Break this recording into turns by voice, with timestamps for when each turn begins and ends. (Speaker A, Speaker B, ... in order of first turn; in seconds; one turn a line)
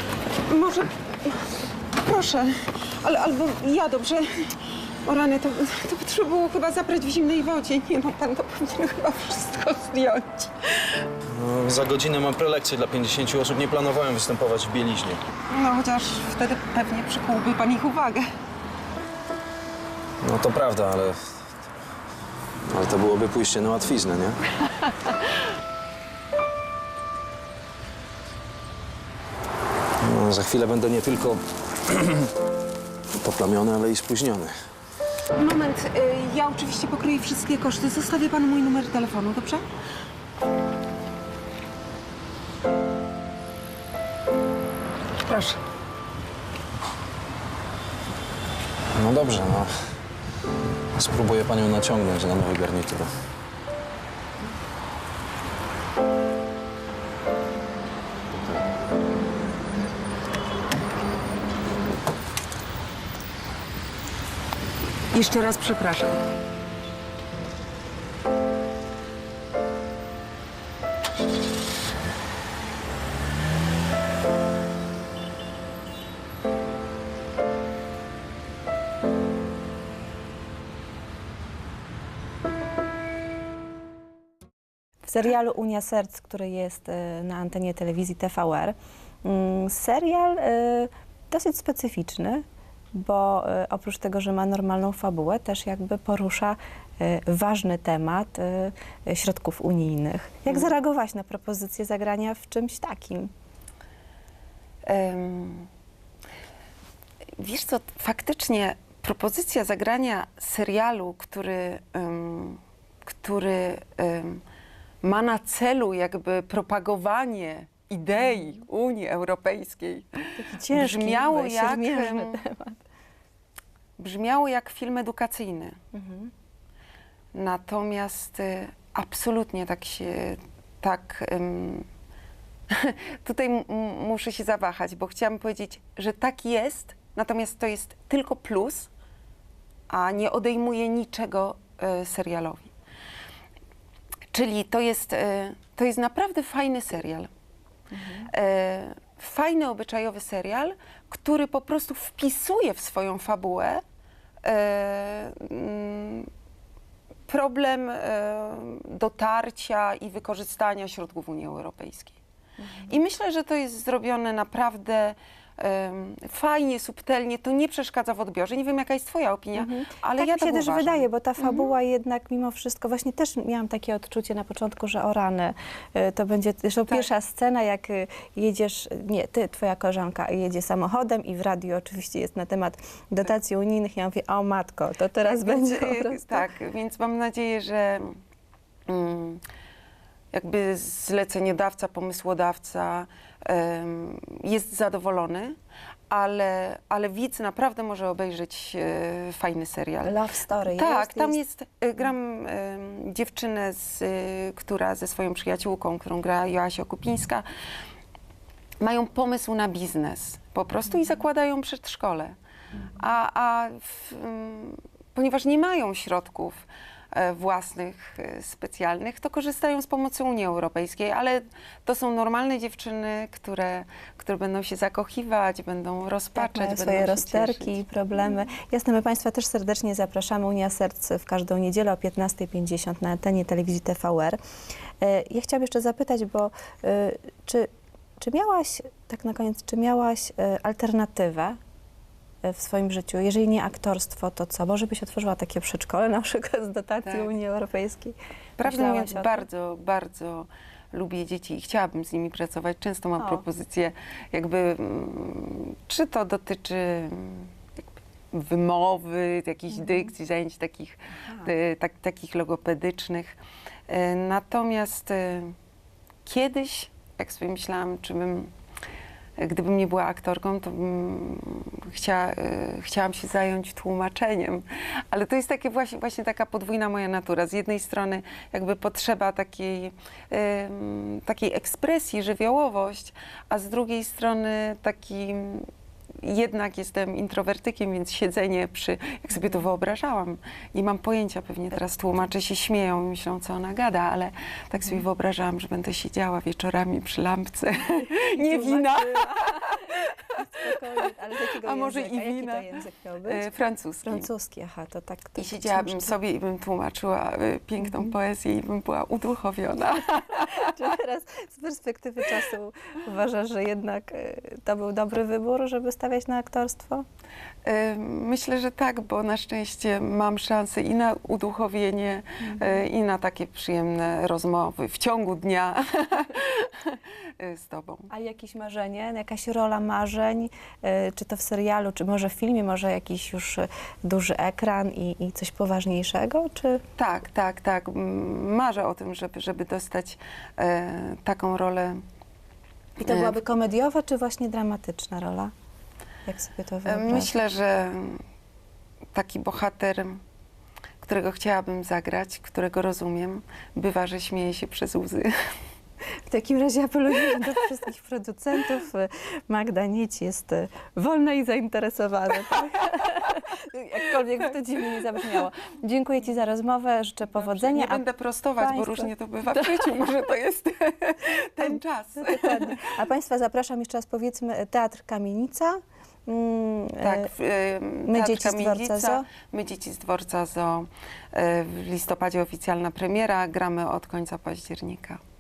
Speaker A: 0.5-11.1
Speaker B: 11.3-15.2
Speaker A: 15.5-18.3
Speaker B: 20.2-21.4
Speaker B: 22.7-24.4
Speaker B: 30.0-32.3
Speaker B: 33.2-34.5
Speaker A: 35.4-39.6
Speaker A: 45.2-45.6
Speaker B: 49.0-49.7
Speaker B: 51.0-53.1
Speaker A: 65.1-66.3
Speaker C: 85.1-103.3
Speaker A: 104.9-105.7
Speaker A: 107.4-114.4
Speaker A: 115.0-120.1
Speaker C: 118.2-118.6
Speaker C: 120.4-122.8
Speaker A: 120.7-122.4
Speaker A: 124.0-125.8
Speaker C: 125.9-126.3
Speaker A: 127.3-131.9
Speaker A: 132.7-138.9
Speaker A: 139.9-142.7
Speaker A: 144.3-147.3
Speaker C: 147.9-148.3
Speaker A: 148.3-153.8
Speaker A: 154.4-156.3
Speaker A: 157.3-162.2
Speaker C: 162.6-163.0
Speaker A: 162.9-171.7
Speaker C: 169.6-186.4
Speaker A: 185.3-188.2
Speaker A: 188.9-189.4
Speaker A: 190.3-195.6
Speaker A: 196.1-200.1
Speaker C: 200.0-201.4
Speaker A: 200.7-207.4
Speaker A: 208.8-212.4
Speaker A: 213.0-227.8
Speaker C: 226.3-234.4
Speaker C: 235.0-237.7
Speaker C: 238.2-241.6
Speaker C: 242.4-249.4
Speaker A: 247.0-247.3
Speaker A: 248.6-257.5
Speaker A: 258.3-263.4
Speaker C: 259.8-260.1
Speaker C: 261.2-261.5
Speaker A: 263.9-265.5
Speaker A: 266.3-268.5
Speaker A: 269.4-285.7
Speaker A: 286.2-300.2
Speaker C: 298.1-303.4
Speaker A: 301.6-304.2
Speaker C: 304.0-306.1
Speaker A: 305.4-310.6
Speaker C: 307.8-308.1
Speaker C: 310.3-317.1
Speaker A: 317.6-328.1
Speaker C: 322.4-322.8
Speaker C: 328.1-336.8
Speaker A: 337.0-342.0
Speaker C: 343.0-345.5
Speaker A: 343.1-343.4
Speaker C: 346.3-347.4
Speaker A: 346.9-348.2
Speaker A: 349.1-350.2
Speaker A: 351.0-355.4
Speaker C: 356.3-368.0
Speaker A: 367.3-372.8
Speaker C: 368.6-369.9
Speaker C: 371.6-377.3
Speaker A: 377.0-385.2
Speaker C: 378.1-379.3